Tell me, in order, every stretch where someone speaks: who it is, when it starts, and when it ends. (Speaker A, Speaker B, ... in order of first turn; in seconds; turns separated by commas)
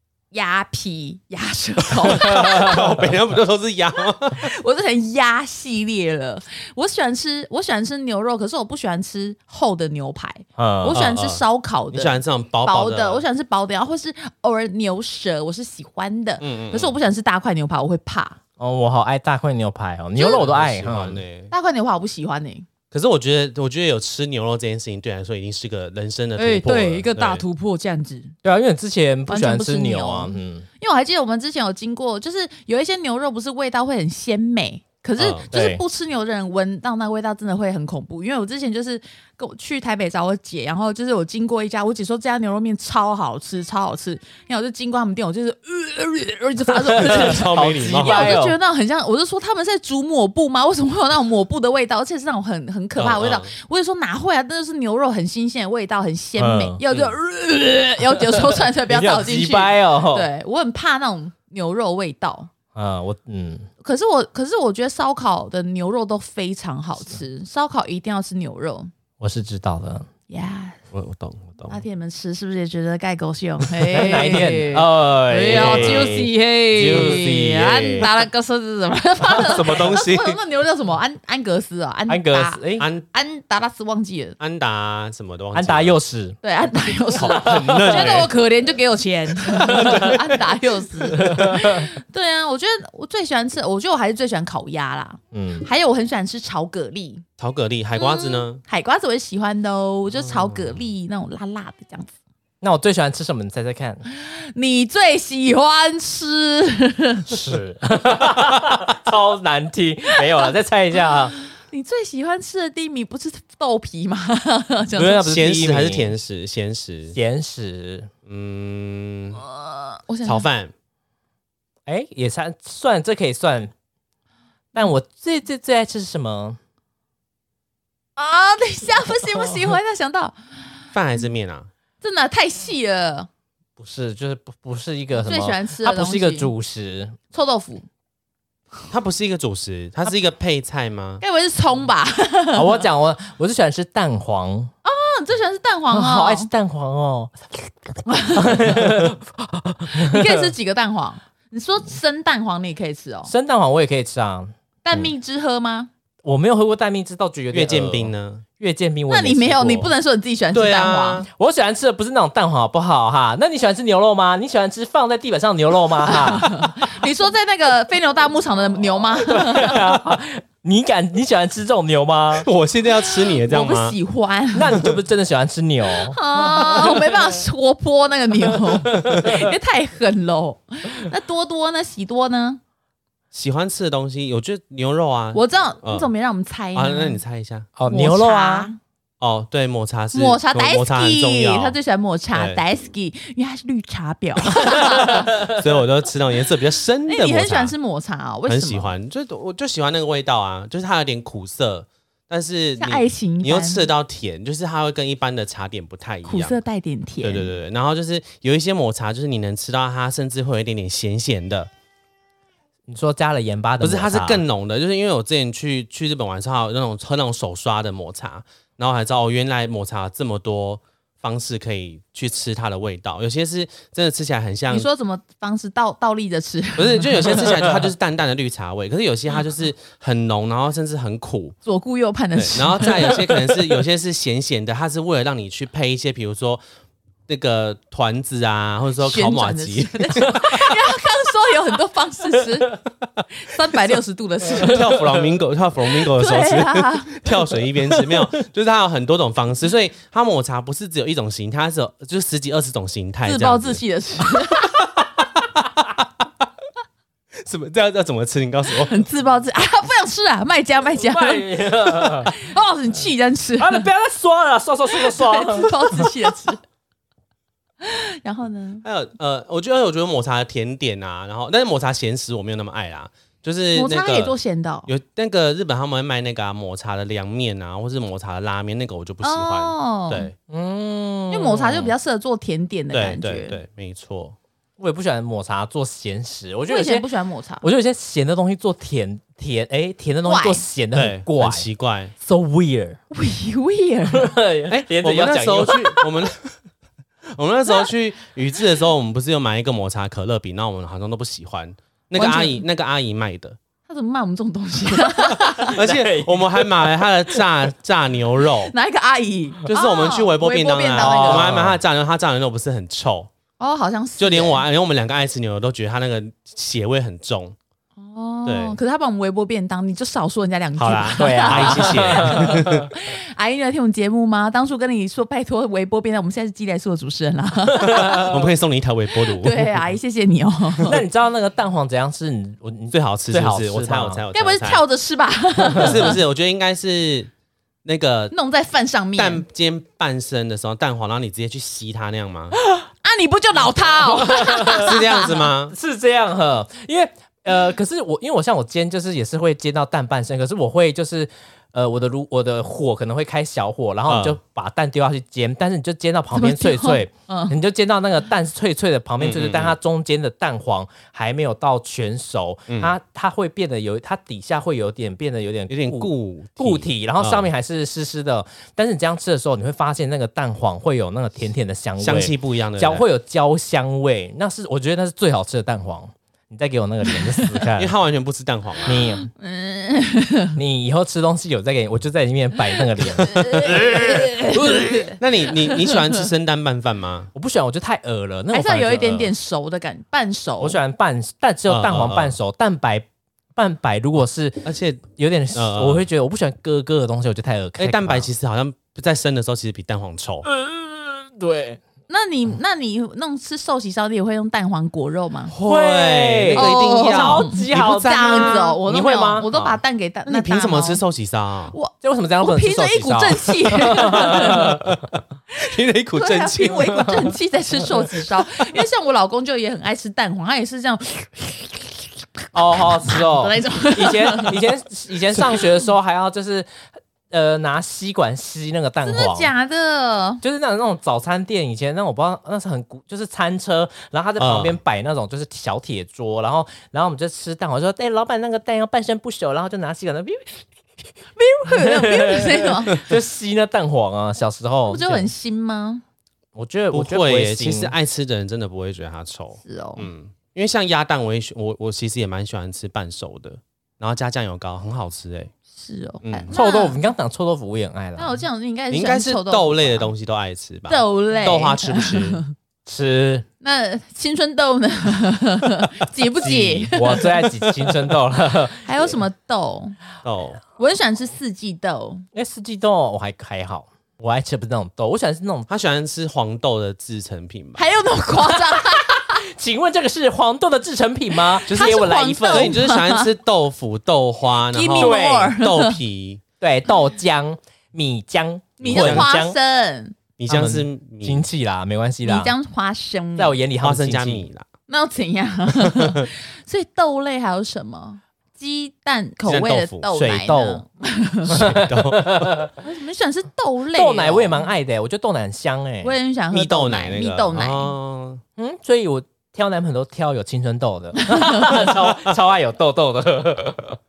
Speaker A: 0.3-2.9, Speaker B: 2.1-4.5, Speaker A: 4.3-18.4, Speaker C: 10.6-11.0, Speaker B: 10.9-13.2, Speaker B: 16.4-17.0, Speaker C: 18.6-21.2, Speaker A: 20.2-20.4, Speaker B: 20.3-21.5, Speaker A: 21.5-22.7, Speaker B: 22.9-27.4, Speaker A: 26.4-28.4, Speaker C: 28.4-30.7, Speaker A: 29.3-62.5, Speaker B: 35.2-35.5, Speaker C: 35.5-35.8, Speaker C: 46.9-48.6, Speaker B: 47.0-48.3, Speaker B: 53.0-53.5, Speaker C: 56.4-56.8, Speaker B: 56.9-57.2, Speaker C: 58.4-60.3, Speaker C: 62.8-63.7, Speaker A: 63.8-68.9, Speaker C: 69.2-70.1, Speaker A: 70.3-70.8, Speaker B: 70.9-71.8, Speaker A: 71.7-84.4, Speaker C: 73.9-78.1, Speaker B: 73.9-74.5, Speaker B: 75.5-76.1, Speaker B: 76.7-78.1, Speaker B: 79.3-80.4, Speaker C: 82.1-82.9, Speaker B: 82.8-83.0, Speaker B: 84.4-86.0, Speaker C: 85.5-86.4, Speaker A: 86.4-97.2, Speaker B: 87.2-88.3, Speaker C: 87.2-88.1, Speaker C: 89.6-90.2, Speaker B: 89.9-90.1, Speaker C: 91.1-91.9, Speaker C: 95.3-95.7, Speaker B: 97.4-98.6, Speaker A: 98.0-102.1, Speaker C: 102.6-104.0, Speaker A: 104.1-107.3, Speaker C: 107.3-111.3, Speaker A: 111.4-115.3, Speaker C: 115.0-116.1, Speaker B: 115.3-117.2, Speaker C: 117.1-118.1, Speaker B: 118.3-119.4, Speaker A: 119.4-120.5, Speaker B: 120.2-120.7, Speaker C: 121.9-123.7, Speaker C: 124.7-126.6, Speaker A: 128.2-130.3, Speaker B: 130.9-131.7, Speaker A: 132.0-133.3, Speaker C: 133.8-137.2, Speaker A: 135.2-136.5, Speaker A: 137.3-137.8, Speaker B: 138.9-141.2, Speaker A: 141.2-142.8, Speaker C: 142.5-144.7, Speaker A: 144.8-146.5, Speaker C: 145.9-150.5, Speaker A: 148.1-149.0, Speaker A: 149.9-153.3, Speaker C: 153.3-155.1, Speaker A: 154.8-155.9, Speaker C: 156.2-159.9, Speaker B: 157.5-158.5, Speaker A: 159.1-161.2, Speaker B: 160.5-161.3, Speaker C: 161.3-166.9, Speaker A: 166.0-169.9, Speaker C: 169.3-172.5, Speaker B: 172.4-174.0, Speaker A: 173.0-174.9, Speaker C: 174.5-177.4, Speaker A: 175.9-182.6, Speaker C: 178.7-179.4, Speaker B: 183.3-186.1, Speaker A: 185.3-187.2, Speaker B: 186.7-187.7, Speaker C: 187.8-188.7, Speaker A: 187.9-188.8, Speaker B: 189.2-191.8, Speaker A: 190.1-195.4, Speaker B: 192.3-192.6, Speaker B: 194.6-197.7, Speaker C: 195.2-195.6, Speaker A: 197.1-198.9, Speaker B: 198.5-206.6, Speaker A: 202.8-203.9, Speaker A: 206.2-207.5, Speaker B: 207.2-211.7, Speaker C: 212.9-214.4, Speaker B: 213.8-224.9, Speaker A: 224.7-227.6, Speaker B: 226.8-231.6, Speaker A: 231.7-233.6, Speaker B: 232.4-236.6, Speaker B: 237.3-240.8, Speaker A: 239.0-242.8, Speaker A: 243.3-245.0, Speaker B: 244.6-253.8, Speaker C: 244.6-245.2, Speaker A: 246.1-247.4, Speaker A: 253.2-254.8, Speaker B: 254.6-255.3, Speaker B: 257.4-259.0, Speaker A: 258.8-263.9, Speaker C: 261.0-262.3, Speaker C: 263.6-266.3, Speaker A: 264.9-266.6, Speaker A: 267.8-268.8, Speaker B: 268.8-274.4, Speaker A: 273.8-274.9, Speaker B: 274.9-280.3, Speaker A: 279.2-280.3, Speaker C: 280.5-281.9, Speaker A: 281.3-283.6, Speaker B: 282.9-284.4, Speaker C: 284.8-287.1, Speaker A: 286.7-287.7, Speaker C: 287.6-291.7, Speaker A: 290.2-290.6, Speaker B: 290.9-292.1, Speaker C: 292.2-293.0, Speaker A: 293.1-294.4, Speaker C: 294.1-296.3, Speaker B: 294.7-296.6, Speaker B: 297.4-303.6, Speaker A: 302.1-302.6, Speaker A: 303.9-305.8, Speaker B: 305.6-308.7, Speaker C: 305.6-307.4, Speaker A: 308.6-311.5, Speaker B: 309.7-313.3, Speaker C: 311.0-311.8, Speaker A: 313.6-314.6, Speaker B: 314.2-317.6, Speaker A: 318.0-328.4, Speaker B: 318.5-318.8, Speaker B: 320.8-322.9, Speaker C: 321.2-322.9, Speaker C: 327.7-328.4, Speaker B: 328.0-329.7, Speaker A: 329.3-331.0, Speaker C: 330.9-334.2, Speaker B: 332.9-334.8, Speaker A: 334.3-336.2, Speaker B: 335.8-337.3, Speaker B: 337.9-338.3, Speaker A: 338.3-339.4, Speaker B: 339.2-342.6, Speaker A: 342.6-345.5, Speaker C: 344.0-344.9, Speaker B: 344.7-345.8, Speaker C: 345.7-377.9, Speaker B: 354.1-354.4, Speaker A: 356.3-357.6, Speaker B: 359.2-359.8, Speaker B: 365.7-367.5, Speaker B: 372.0-373.0, Speaker A: 377.1-377.6, Speaker B: 377.8-379.0, Speaker C: 378.9-379.3, Speaker A: 379.1-380.6, Speaker C: 380.6-385.1, Speaker A: 382.8-385.2, Speaker B: 385.2-387.3, Speaker C: 387.4-389.3, Speaker A: 388.5-390.8, Speaker C: 390.6-398.3, Speaker B: 391.7-392.4, Speaker B: 394.6-396.1, Speaker B: 397.8-400.5, Speaker C: 400.4-401.8, Speaker A: 402.1-405.5, Speaker B: 405.5-407.9, Speaker C: 405.6-409.8, Speaker A: 406.6-411.0, Speaker B: 410.3-411.8, Speaker A: 411.7-414.8, Speaker C: 412.0-414.8, Speaker B: 414.3-415.0, Speaker B: 415.6-417.3, Speaker A: 416.2-422.0, Speaker C: 422.5-426.7, Speaker A: 422.7-424.7, Speaker C: 427.3-429.5, Speaker A: 429.0-430.4, Speaker C: 430.4-440.6, Speaker B: 434.4-434.8, Speaker A: 441.4-443.0, Speaker C: 441.6-445.3, Speaker A: 444.9-446.0, Speaker C: 446.6-447.9, Speaker B: 446.9-455.5, Speaker A: 449.6-450.1, Speaker A: 455.7-457.0, Speaker B: 456.2-456.5, Speaker C: 456.5-458.4, Speaker A: 458.2-460.1, Speaker B: 458.9-462.4, Speaker A: 460.9-462.5, Speaker C: 462.9-463.5, Speaker A: 463.6-467.9, Speaker B: 466.4-466.9, Speaker C: 466.9-469.2, Speaker A: 468.8-470.0, Speaker B: 470.2-470.6, Speaker A: 470.8-472.2, Speaker C: 472.3-475.7, Speaker B: 475.7-477.9, Speaker A: 477.8-479.4, Speaker C: 478.5-482.8, Speaker A: 481.5-483.3, Speaker B: 481.7-486.4, Speaker A: 484.7-486.0, Speaker C: 485.0-485.5, Speaker C: 486.6-489.6, Speaker A: 488.8-490.2, Speaker B: 488.9-489.3, Speaker B: 490.4-491.4, Speaker C: 490.5-492.5, Speaker A: 492.2-493.6, Speaker C: 493.4-494.5, Speaker B: 493.8-494.7, Speaker A: 494.9-501.8, Speaker B: 499.4-500.1, Speaker C: 500.1-500.8, Speaker B: 501.5-502.5, Speaker C: 501.5-502.7, Speaker A: 502.8-504.7, Speaker C: 503.9-506.1, Speaker A: 506.0-507.9, Speaker B: 506.5-508.4, Speaker C: 508.6-514.0, Speaker A: 511.2-511.8